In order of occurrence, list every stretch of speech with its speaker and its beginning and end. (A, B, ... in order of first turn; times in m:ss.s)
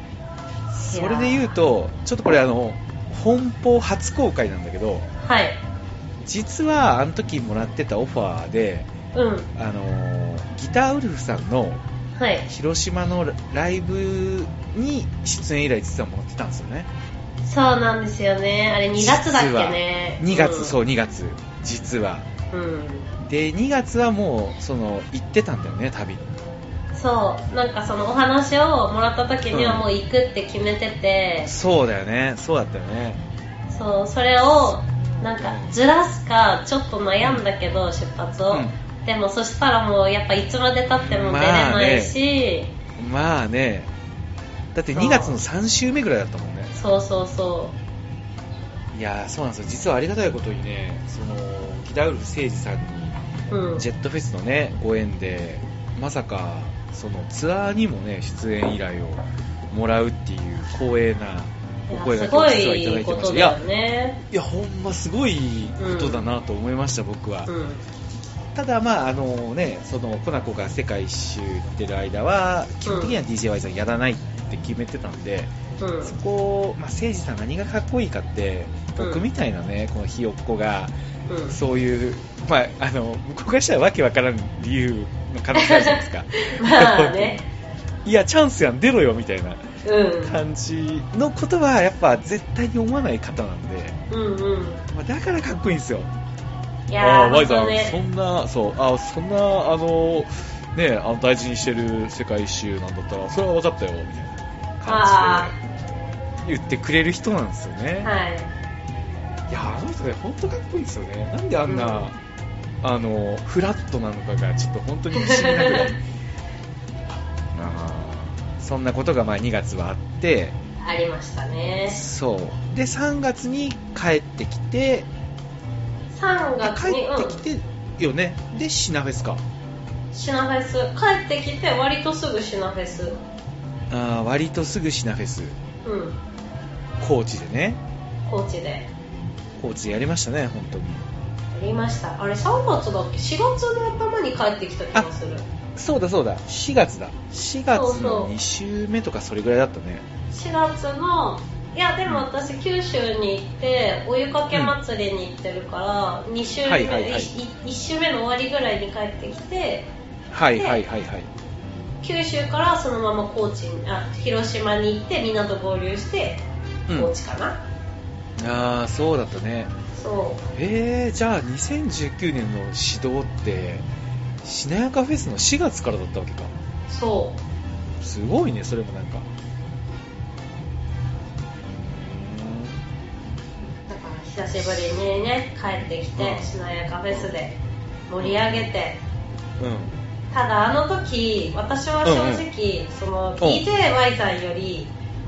0:00.7-0:05.1 A
0:00.9-0:01.5 B
0:05.2-0:05.6 B
0:06.2-0:08.9 A
0:09.1-0:09.5 B
0:09.6-0:11.8 A
0:12.2-0:12.5 B
0:12.5-0:16.9 A
0:17.4-0:20.8 B
0:19.0-0:22.3 A
0:22.5-0:23.1 B
0:23.2-0:26.4 A
0:27.0-0:31.5 B
0:29.5-0:29.9 A
0:31.4-0:33.2 A
0:33.7-0:42.7 B
0:34.4-0:35.8 A
0:40.9-0:42.2 A
0:43.0-0:43.9 A
0:44.7-0:46.8 A
0:45.0-0:45.4 B
0:46.8-0:47.8 B
0:48.9-0:53.2 A
0:53.5-0:53.8 B
0:53.8-1:03.6 A
1:01.9-1:04.2 B
1:04.3-1:07.5 A
1:05.8-1:06.3 B
1:07.5-1:07.8 B
1:08.6-1:15.5 A
1:12.9-1:13.2 B
1:15.8-1:16.2 B
1:16.0-1:20.9 A
1:19.0-1:19.2 B
1:21.3-1:21.6 B
1:21.5-1:27.4 A
1:25.6-1:27.4 B
1:28.0-1:29.6 A
1:29.8-1:30.4 B
1:30.2-1:34.0 A
1:34.1-1:34.8 B
1:34.9-1:36.1 A
1:36.9-1:38.0 B
1:37.0-1:45.6 A
1:44.9-1:45.5 B
1:46.4-1:48.1 A
1:48.0-1:48.5 B
1:49.5-1:52.2 A
1:51.7-1:52.0 B
1:52.8-1:56.0 A
1:55.1-1:55.9 B
1:57.5-2:00.6 A
2:00.8-2:02.0 B
2:01.9-2:05.1 A
2:06.1-2:07.4 B
2:06.6-2:09.4 A
2:10.1-2:13.2 B
2:13.9-2:15.6 A
2:15.8-2:16.2 B
2:17.0-2:17.8 A
2:18.2-2:18.9 B
2:19.6-2:21.0 A
2:21.5-2:25.4 B
2:25.8-2:30.1 A
2:27.7-2:28.3 B
2:30.3-2:39.9 B
2:36.6-2:37.3 A
2:40.3-2:41.3 A
2:40.6-2:40.8 B
2:42.0-2:47.6 B
2:46.9-2:47.1 A
2:48.4-2:49.7 A
2:50.0-2:50.4 B
2:50.6-2:53.9 A
2:54.4-2:56.5 A
2:56.9-2:57.4 B
2:58.0-2:59.3 A
3:01.6-3:02.8 A
3:03.9-3:07.6 B
3:06.2-3:06.5 A
3:08.1-3:09.0 B
3:08.2-3:08.7 A
3:09.6-3:10.0 A
3:10.3-3:14.9 B
3:12.0-3:12.5 A
3:13.4-3:13.6 A